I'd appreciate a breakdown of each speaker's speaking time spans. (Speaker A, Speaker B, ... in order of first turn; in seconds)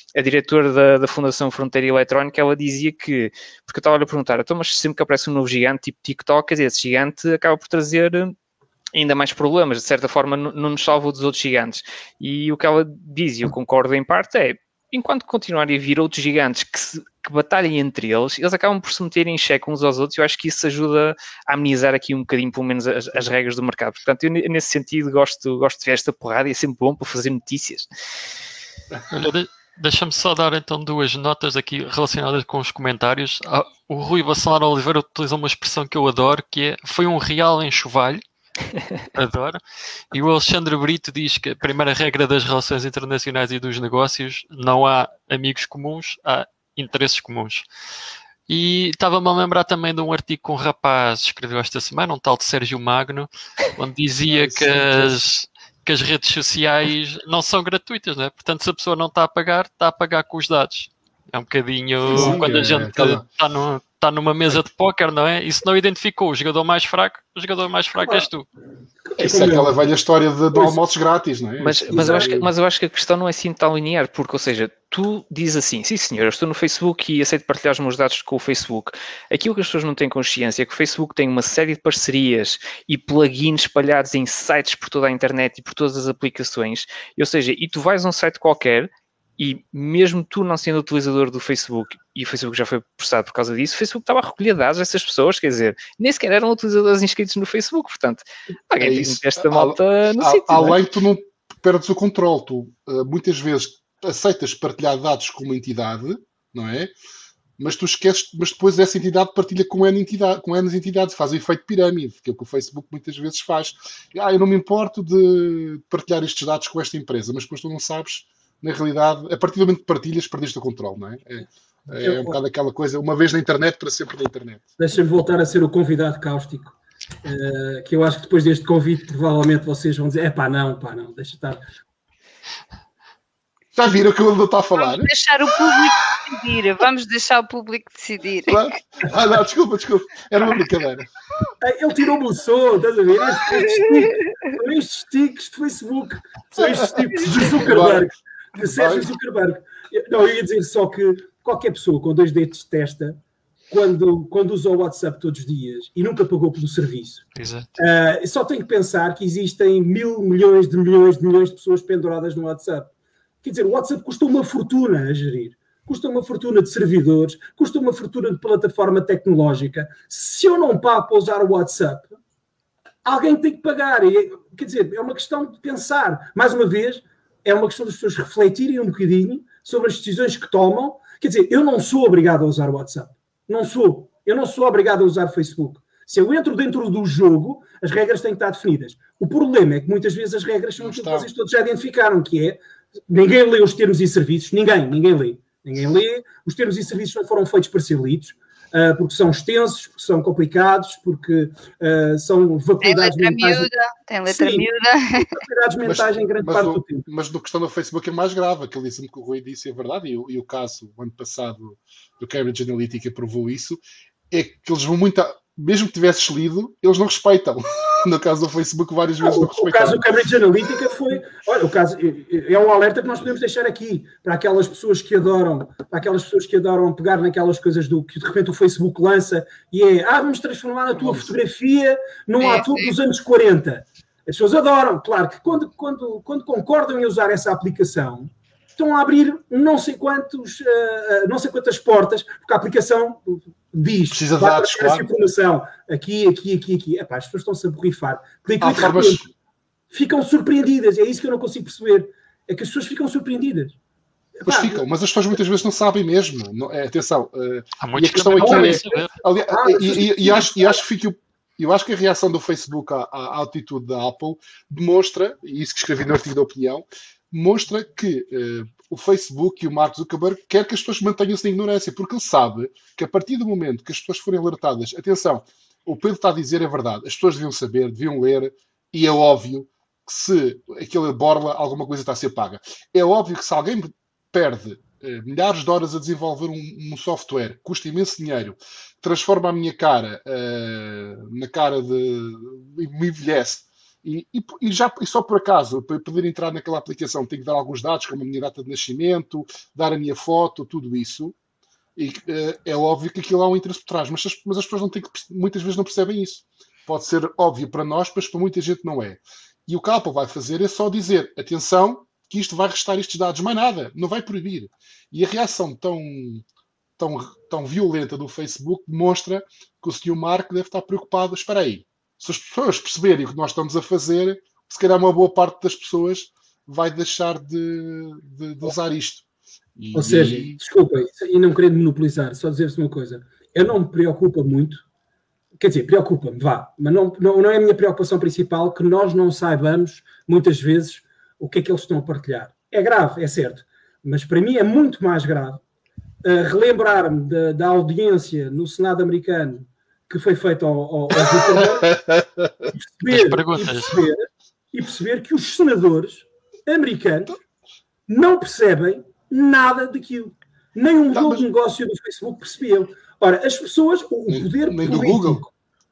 Speaker A: 0.1-8.3, 8.9-27.9, 71.6-100.8
Speaker B: 28.9-29.3, 54.3-55.2, 62.0-63.2, 69.2-72.5, 98.8-106.9, 107.6-124.7, 133.8-135.1, 138.5-141.1, 146.6-149.1, 190.8-191.3, 205.8-220.1, 230.9-231.3, 244.1-245.1, 248.6-249.3, 254.5-301.4, 302.0-316.4, 317.0-329.2, 329.8-330.6, 351.4-352.7, 361.1-361.5, 364.3-365.4
Speaker C: 29.1-38.2, 39.1-39.6, 40.1-47.7, 48.5-68.5, 157.4-157.7, 257.8-259.1, 353.1-354.0
Speaker D: 62.1-62.6, 69.0-69.8, 70.5-70.8, 71.9-72.4, 122.0-122.4, 124.8-131.6, 141.6-153.2, 153.7-157.2, 157.8-162.9, 163.4-172.2, 173.1-203.7, 204.3-204.7, 205.2-207.1, 219.2-249.3, 249.9-253.8, 254.4-254.9, 258.4-260.8, 329.9-334.8, 335.6-345.6, 346.2-352.0, 352.7-357.4, 358.1-365.5
Speaker E: 134.8-138.6, 202.8-205.4, 232.4-232.9